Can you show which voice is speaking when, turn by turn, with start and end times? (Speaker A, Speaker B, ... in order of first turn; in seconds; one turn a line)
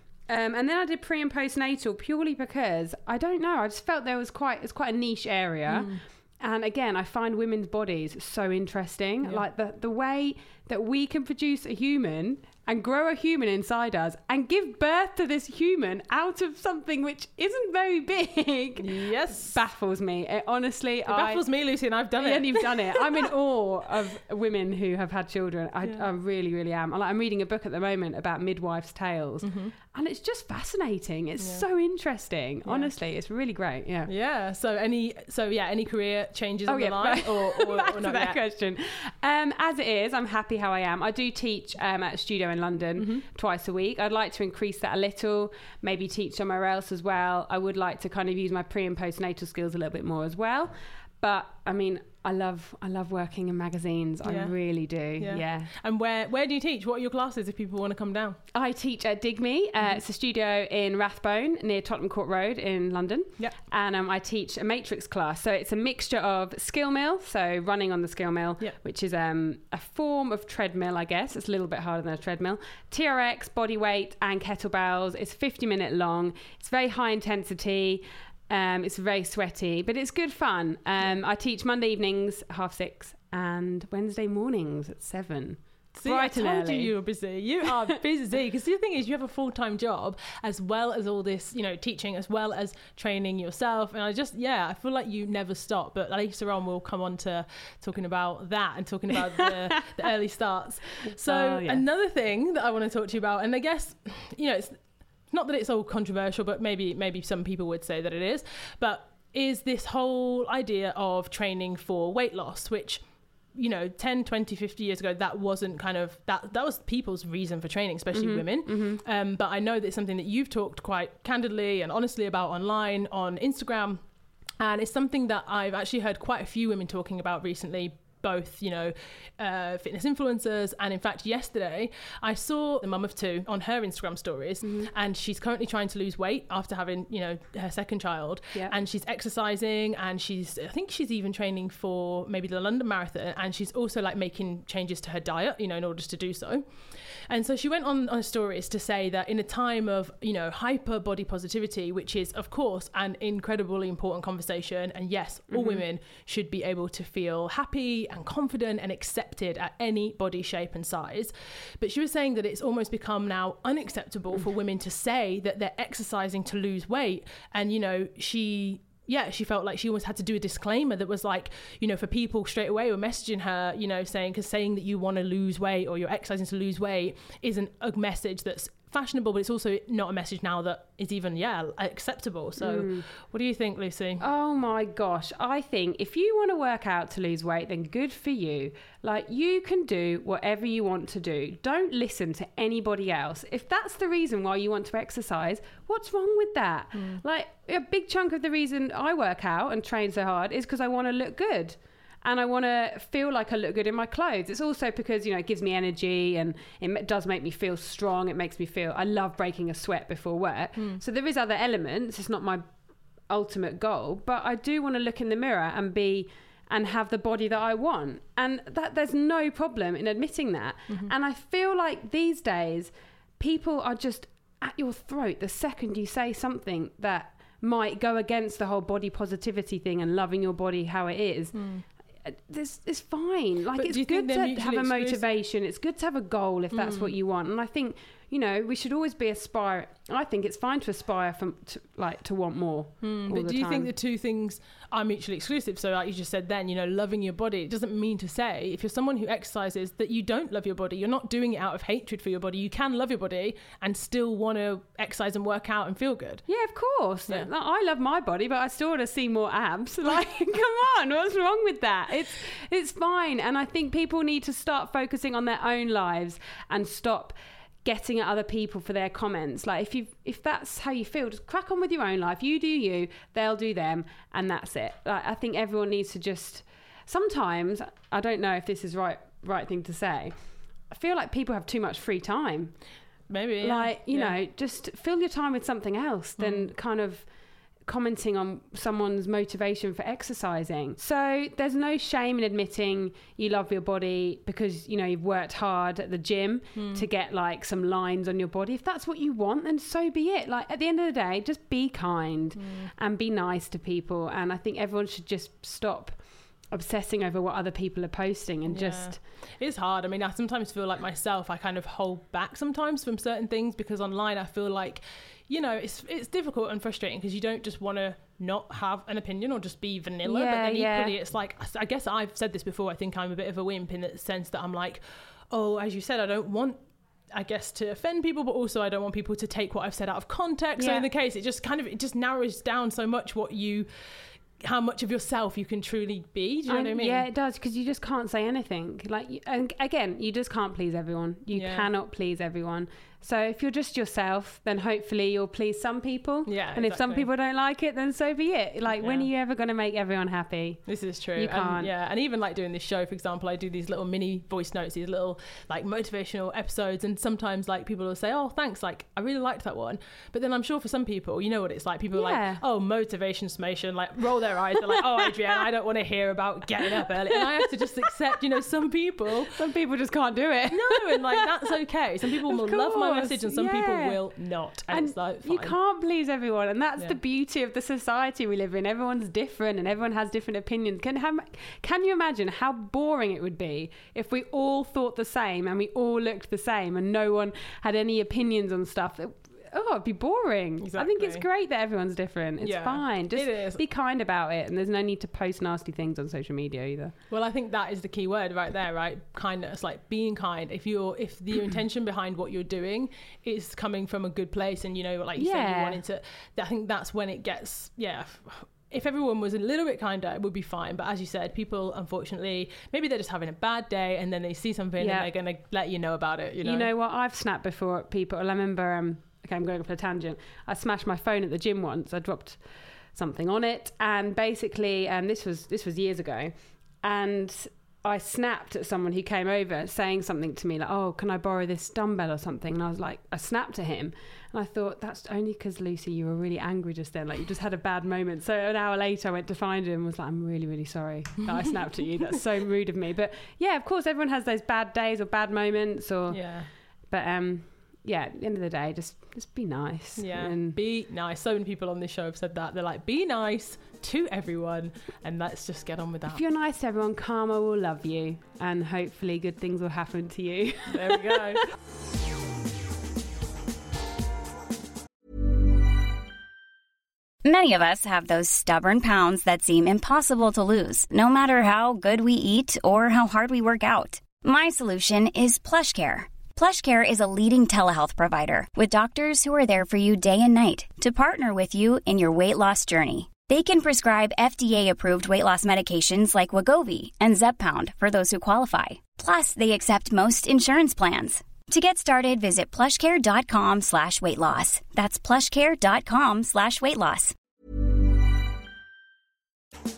Speaker A: 0.3-21.4
Speaker B: 5.7-6.0
Speaker B: 18.8-19.6
Speaker B: 21.1-23.3
Speaker A: 22.2-34.1
Speaker B: 29.4-29.7
Speaker B: 31.4-31.6
Speaker B: 32.6-32.9
Speaker B: 34.1-38.4
Speaker A: 36.7-55.7
Speaker B: 43.0-43.2
Speaker B: 54.2-54.6
Speaker B: 55.2-58.4
Speaker A: 58.5-86.9
Speaker B: 85.9-113.0
Speaker A: 101.0-101.8
Speaker B: 113.5-124.0
Speaker A: 118.1-119.0
Speaker B: 124.6-184.2
Speaker A: 134.6-134.9
Speaker A: 155.5-155.8
Speaker A: 182.6-183.1
Speaker A: 184.2-212.7
Speaker B: 196.9-197.2
Speaker A: 213.3-231.6
Speaker B: 231.5-231.8
Speaker A: 232.2-243.9
Speaker B: 233.8-235.2
Speaker B: 236.7-237.2
Speaker B: 243.0-256.4
Speaker A: 256.5-280.3
Speaker A: 280.9-282.8
Speaker B: 283.3-284.4
Speaker A: 283.6-287.3
Speaker B: 286.4-286.7
Speaker A: 287.9-309.2
Speaker B: 296.8-297.1
Speaker B: 302.6-302.9
Speaker B: 308.7-326.8
Speaker A: 320.2-321.1
Speaker B: 327.3-333.9
Speaker A: 330.8-331.1
Speaker B: 334.6-337.3
Speaker A: 336.7-350.8
Speaker B: 341.5-341.9
Speaker B: 346.5-347.3
Speaker B: 349.0-349.3
Speaker B: 350.9-369.6
Speaker A: 351.4-351.9
Speaker A: 362.1-362.6
Speaker A: 364.9-365.3
Speaker A: 366.9-368.1
Speaker A: 369.5-371.5
Speaker B: 370.7-375.8
Speaker A: 372.4-374.2
Speaker A: 374.9-397.1
Speaker B: 390.8-391.4
Speaker B: 392.6-393.8
Speaker B: 397.3-416.9
Speaker A: 405.4-406.0
Speaker A: 415.0-415.3
Speaker A: 416.6-422.6
Speaker A: 423.1-426.5
Speaker A: 427.0-446.5
Speaker B: 441.5-442.4
Speaker B: 446.3-446.7
Speaker A: 447.1-450.8
Speaker B: 450.2-456.4
Speaker A: 456.3-461.6
Speaker B: 460.9-461.6
Speaker C: 467.4-497.4